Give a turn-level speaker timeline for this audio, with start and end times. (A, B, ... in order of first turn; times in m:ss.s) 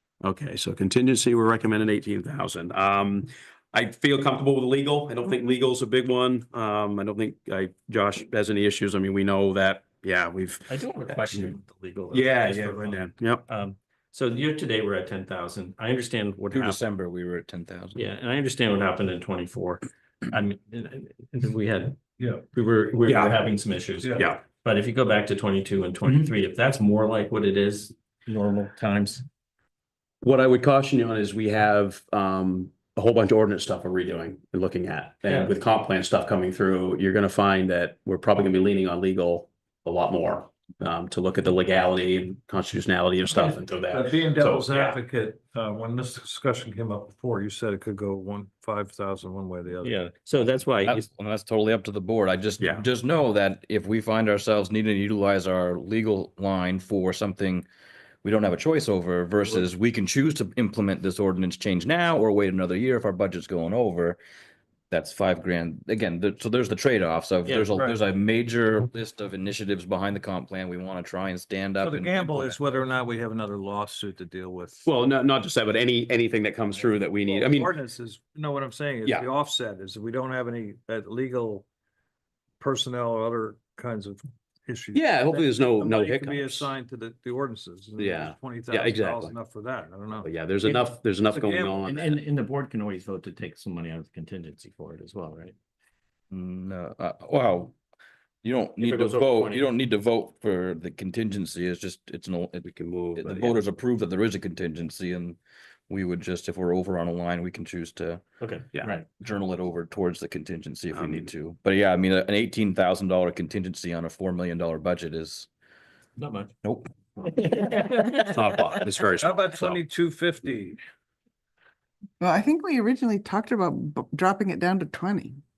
0:00.2-0:11.5 A
0:10.7-0:16.8 B
0:12.1-0:13.4 A
0:16.5-0:18.0 C
0:17.9-0:22.0 B
0:22.2-0:22.4 D
0:22.6-0:29.2 B
0:22.6-0:23.3 A
0:23.1-0:23.4 D
0:24.0-0:24.3 D
0:30.2-0:45.0 A
0:35.2-0:35.5 B
0:43.9-0:50.0 D
0:49.8-0:51.0 B
0:50.8-0:57.6 C
0:58.2-1:04.2 C
1:04.9-1:12.6 C
1:07.4-1:07.7 B
1:11.8-1:14.8 D
1:14.8-1:17.7 A
1:16.7-1:21.6 D
1:22.6-1:30.3 D
1:24.9-1:26.7 A
1:28.0-1:29.3 A
1:30.2-1:32.1 A
1:30.6-1:35.5 B
1:36.3-1:37.8 C
1:38.4-1:42.7 C
1:38.8-1:39.7 A
1:42.6-1:43.6 A
1:43.2-1:48.2 C
1:48.4-1:49.1 B
1:49.2-1:55.5 C
1:50.9-1:51.3 A
1:56.2-1:56.5 B
1:56.6-1:56.9 C
1:57.2-1:58.4 B
1:58.3-1:59.8 A
1:59.2-2:00.8 D
2:02.2-2:05.4 E